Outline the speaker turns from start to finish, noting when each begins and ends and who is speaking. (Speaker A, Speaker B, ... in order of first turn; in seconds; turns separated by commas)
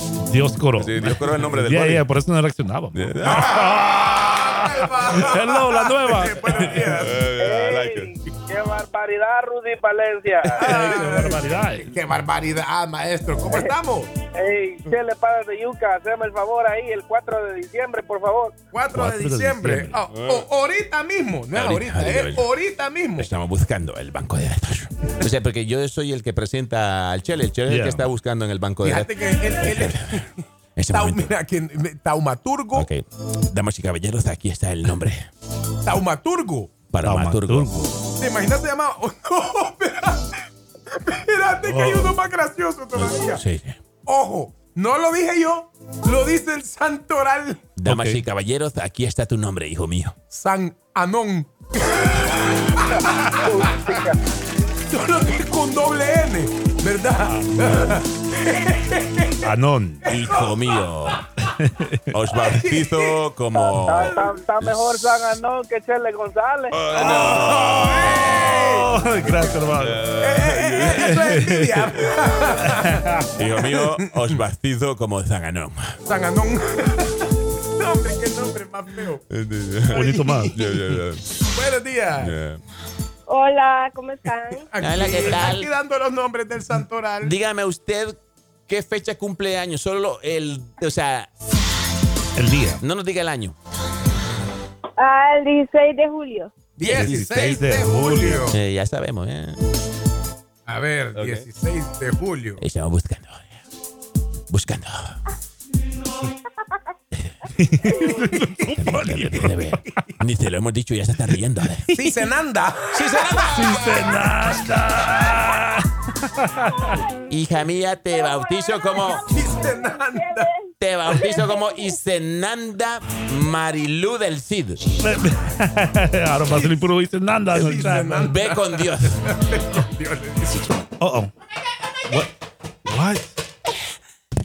Speaker A: 0.3-4.5, Speaker B: 0.8-2.0, Speaker B: 2.9-3.9, Speaker C: 3.2-7.2, Speaker A: 5.1-6.9, Speaker B: 6.8-8.1, Speaker D: 7.4-10.5, Speaker B: 10.5-10.9, Speaker C: 10.6-14.1, Speaker A: 10.6-12.0, Speaker D: 14.3-18.5, Speaker C: 18.7-23.3, Speaker A: 18.9-20.0, Speaker B: 20.1-20.4, Speaker B: 21.5-22.5, Speaker B: 23.2-30.2, Speaker A: 27.7-28.1, Speaker C: 28.8-32.9, Speaker B: 30.8-31.3, Speaker B: 32.7-35.3, Speaker C: 35.8-36.7, Speaker B: 36.9-37.7, Speaker A: 37.0-37.9, Speaker C: 38.1-40.3, Speaker C: 40.9-43.4, Speaker A: 41.6-42.1, Speaker B: 43.0-43.8, Speaker C: 44.0-47.6, Speaker B: 47.8-50.1, Speaker A: 47.9-48.2, Speaker C: 50.3-54.0, Speaker D: 53.6-54.0, Speaker C: 54.9-59.5, Speaker A: 57.2-58.0, Speaker A: 59.4-60.1, Speaker C: 60.0-60.8, Speaker B: 60.1-61.2, Speaker A: 61.6-62.0, Speaker B: 62.1-65.2, Speaker C: 62.5-63.2, Speaker D: 63.5-66.8, Speaker C: 64.0-64.3, Speaker B: 66.7-68.4, Speaker C: 66.9-68.9, Speaker A: 68.4-70.0, Speaker B: 69.7-71.2, Speaker C: 70.2-74.1, Speaker A: 71.1-71.7, Speaker A: 72.7-73.1, Speaker B: 73.3-76.0, Speaker C: 76.0-79.2, Speaker B: 79.3-81.3, Speaker C: 79.9-80.5, Speaker A: 79.9-80.5, Speaker C: 81.5-82.3, Speaker B: 82.2-82.6, Speaker E: 83.3-84.7, Speaker C: 84.7-87.3, Speaker B: 84.8-85.7, Speaker B: 87.2-91.3, Speaker A: 92.3-92.8, Speaker B: 92.8-93.5, Speaker E: 95.0-96.5, Speaker C: 96.8-98.6, Speaker B: 96.8-97.6, Speaker A: 96.8-98.5, Speaker B: 98.5-99.6, Speaker C: 100.7-102.6, Speaker B: 101.1-101.5, Speaker B: 102.6-103.6, Speaker B: 104.5-105.2, Speaker A: 107.6-109.6, Speaker C: 107.9-109.1, Speaker B: 108.8-111.8, Speaker C: 111.9-114.2, Speaker A: 113.4-116.9, Speaker B: 117.3-119.2, Speaker C: 119.1-120.5, Speaker B: 120.8-124.8, Speaker C: 121.1-121.4, Speaker A: 125.0-128.3, Speaker C: 126.5-126.9, Speaker C: 127.5-130.8, Speaker B: 128.2-129.2, Speaker A: 131.0-131.3, Speaker A: 132.8-133.3